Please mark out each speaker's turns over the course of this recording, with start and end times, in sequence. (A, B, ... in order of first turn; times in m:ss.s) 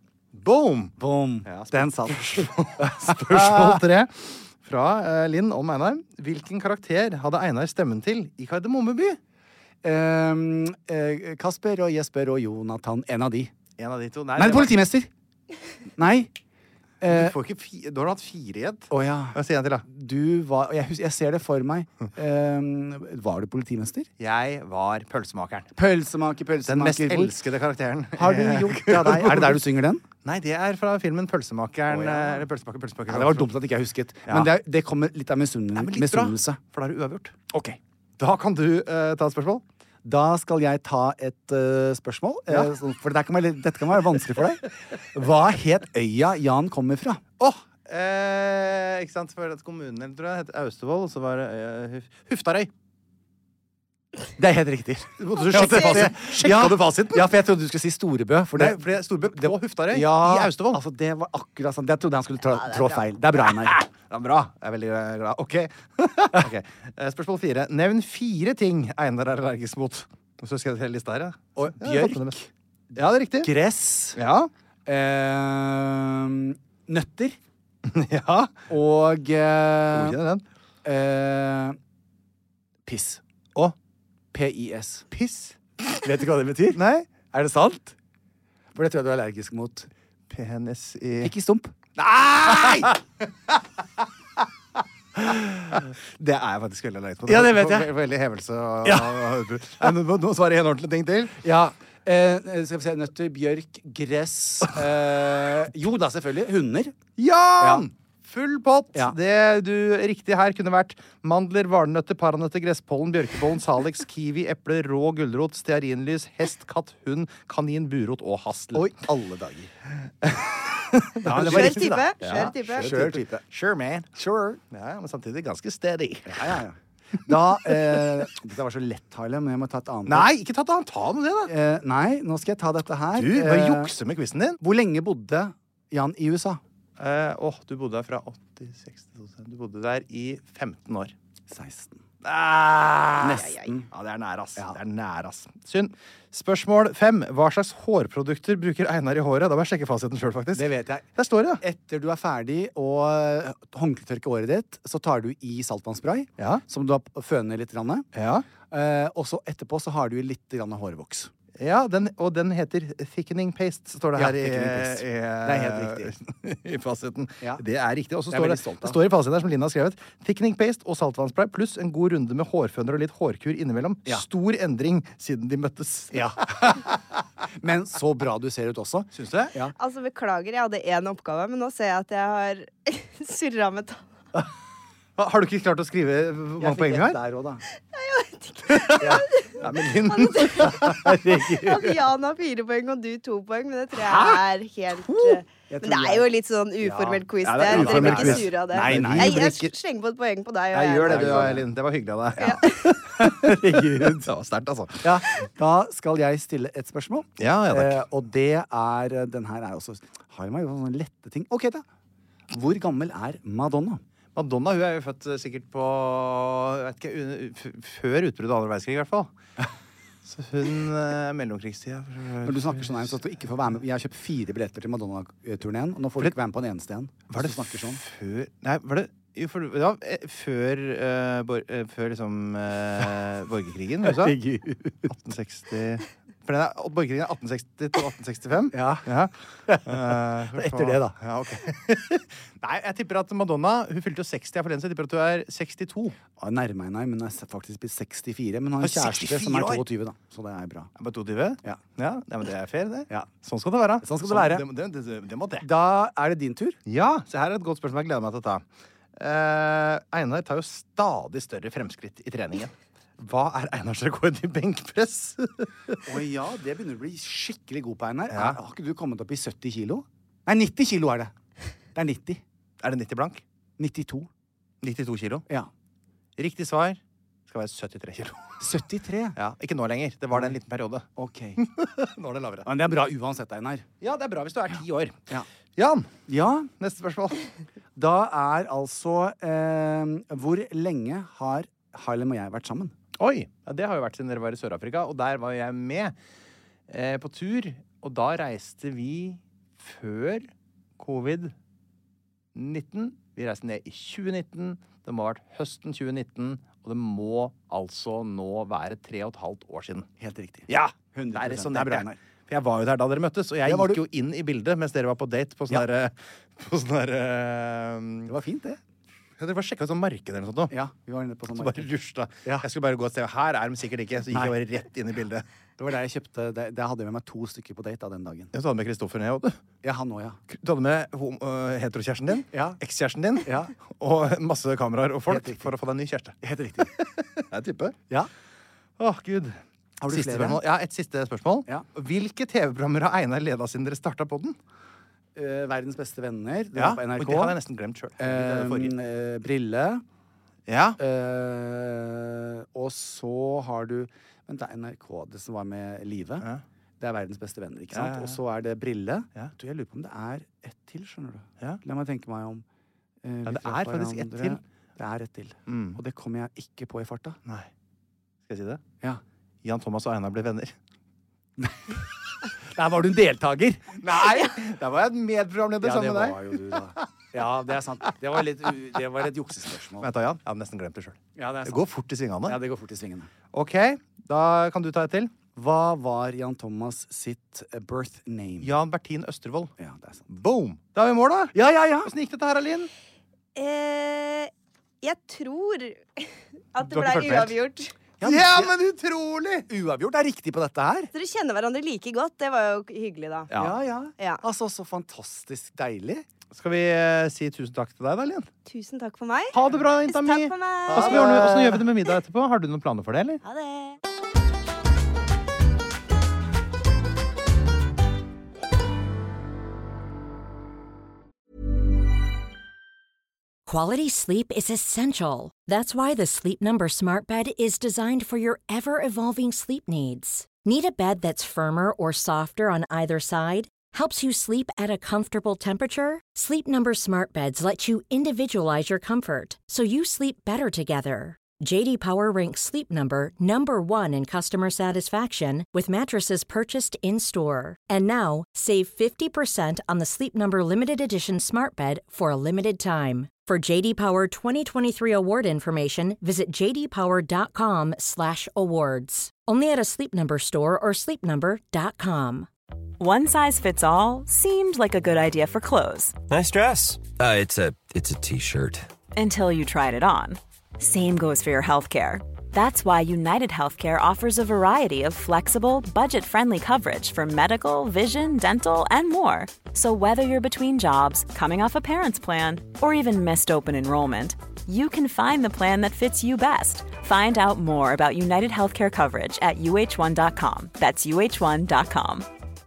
0:00.3-0:00.9 A
0:01.0-0:03.8 B
0:01.4-0:09.2 A
0:09.8-0:13.5 B
0:13.8-0:14.7 A
0:14.4-0:15.1 B
0:16.0-0:16.3 B
0:17.0-0:17.3 B
0:17.0-0:19.8 A
0:18.9-0:24.1 B
0:24.2-0:25.7 A
0:25.8-0:27.4 B
0:26.6-0:29.6 A
0:28.2-0:30.0 B
0:30.2-0:33.5 A
0:31.9-0:32.4 B
0:33.1-0:36.6 B
0:35.8-0:37.4 A
0:37.5-0:37.8 B
0:38.2-0:39.6 A
0:40.0-0:47.2 B
0:47.4-0:52.7 A
0:54.4-1:03.8 B
0:55.2-0:57.3 A
0:58.6-1:00.8 A
1:03.6-1:12.4 A
1:11.6-1:12.5 B
1:12.9-1:13.5 A
1:13.4-1:14.2 B
1:14.1-1:14.5 A
1:14.8-1:17.4 B
1:17.9-1:18.6 A
1:18.7-1:20.2 B
1:19.9-1:20.4 A
1:20.8-1:21.8 B
1:22.8-1:23.2 B
1:24.3-1:25.1 B
1:25.1-1:26.0 A
1:26.0-1:28.0 B
1:26.7-1:27.1 A
1:28.7-1:29.9 B
1:30.3-1:31.3 A
1:31.2-1:31.7 B
1:32.0-1:33.0 A
1:35.2-1:41.4 A
1:37.2-1:37.9 B
1:38.8-1:39.3 B
1:41.4-1:47.0 B
1:47.2-1:59.1 A
1:47.6-1:47.9 B
1:58.7-1:59.7 B
2:00.2-2:04.2 A
2:01.2-2:03.4 B
2:01.3-2:03.0 C
2:04.2-2:04.6 B
2:04.7-2:06.6 A
2:06.3-2:10.3 B
2:07.6-2:08.2 A
2:10.1-2:11.5 A
2:11.5-2:13.9 B
2:13.1-2:14.6 A
2:14.6-2:16.6 B
2:17.0-2:21.1 A
2:21.5-2:22.0 B
2:22.2-2:31.6 A
2:23.2-2:23.9 B
2:23.4-2:23.7 C
2:30.5-2:31.0 B
2:31.6-2:38.1 B
2:36.4-2:36.6 A
2:38.1-2:38.4 A
2:38.7-2:41.3 B
2:41.6-2:56.9 A
2:44.1-2:46.1 B
2:48.3-2:49.0 B
2:56.1-2:56.9 B
2:57.6-2:59.7 B
2:59.1-2:59.5 A
2:59.8-3:04.0 C
3:05.2-3:07.2 A
3:06.6-3:07.6 B
3:07.9-3:21.6 C
3:08.7-3:11.2 A
3:09.0-3:09.3 B
3:10.5-3:12.0 B
3:14.0-3:14.4 A
3:15.0-3:15.4 A
3:15.7-3:16.3 B
3:16.8-3:19.5 B
3:17.4-3:19.7 A
3:20.7-3:25.2 A
3:21.0-3:21.7 B
3:22.4-3:23.0 C
3:22.4-3:22.6 B
3:23.2-3:24.3 B
3:25.0-3:31.8 B
3:27.4-3:28.0 A
3:32.5-3:34.0 B
3:34.3-3:39.3 A
3:40.2-3:43.2 A
3:42.4-3:48.0 B
3:47.3-3:54.4 A
3:54.0-3:55.1 B
3:55.1-3:59.3 A
3:58.7-3:59.1 B
3:59.7-4:01.2 B
3:59.8-4:06.2 A
4:06.4-4:10.9 B
4:08.8-4:09.8 A
4:11.0-4:15.7 A
4:14.0-4:14.6 B
4:15.6-4:16.8 B
4:16.8-4:18.6 A
4:19.2-4:26.0 A
4:26.0-4:31.3 B
4:28.3-4:28.6 A
4:31.9-4:32.4 B
4:32.8-4:33.4 A
4:33.8-4:34.3 B
4:34.8-4:35.5 A
4:36.4-4:38.4 A
4:38.6-4:39.4 B
4:39.4-4:41.0 A
4:41.2-4:41.6 B
4:41.6-4:42.7 A
4:42.6-4:43.8 B
4:44.0-4:45.2 A
4:45.8-4:46.1 A
4:46.3-4:46.7 B
4:46.8-4:47.4 A
4:47.9-4:52.9 B
4:53.2-4:56.1 A
4:56.9-5:01.5 A
5:02.5-5:10.1 A
5:10.2-5:12.2 B
5:10.7-5:18.3 A
5:13.6-5:14.0 B
5:18.3-5:18.8 B
5:19.4-5:20.7 A
5:20.7-5:21.9 B
5:21.5-5:25.4 A
5:24.3-5:24.6 B
5:25.8-5:28.5 B
5:28.5-5:29.6 A
5:29.8-5:30.4 B
5:30.5-5:38.0 A
5:32.5-5:32.8 B
5:33.4-5:33.7 B
5:35.3-5:35.7 B
5:36.4-5:36.9 B
5:39.0-5:44.6 A
5:40.0-5:40.6 B
5:45.3-5:47.6 B
5:46.7-5:49.0 A
5:48.2-5:50.0 B
5:50.7-5:51.0 A
5:51.0-5:56.5 B
5:57.0-6:02.6 B
5:57.9-5:58.4 A
6:03.2-6:07.4 B
6:03.4-6:04.6 A
6:05.7-6:06.0 A
6:08.5-6:08.8 A
6:09.6-6:10.7 A
6:11.6-6:12.0 B
6:12.6-6:14.0 B
6:14.0-6:17.0 A
6:15.8-6:20.1 B
6:20.0-6:22.6 A
6:21.4-6:21.8 B
6:22.4-6:23.3 B
6:23.5-6:25.3 A
6:25.6-6:28.7 B
6:28.6-6:29.7 A
6:29.8-6:30.3 B
6:30.3-6:32.9 A
6:31.5-6:32.1 B
6:33.6-6:34.5 C
6:35.0-6:37.9 C
6:36.9-6:37.6 A
6:38.2-6:38.7 B
6:38.2-6:39.7 A
6:39.7-6:41.1 B
6:41.1-6:43.5 C
6:43.5-6:43.7 A
6:43.6-6:46.2 B
6:46.5-6:48.5 A
6:48.6-6:49.5 C
6:49.5-6:53.4 A
6:50.1-6:51.4 C
6:50.9-6:51.8 B
6:53.4-6:54.0 C
7:03.7-7:42.5 D
7:43.0-7:46.2 E
7:46.3-7:48.9 F
7:49.1-8:12.3 E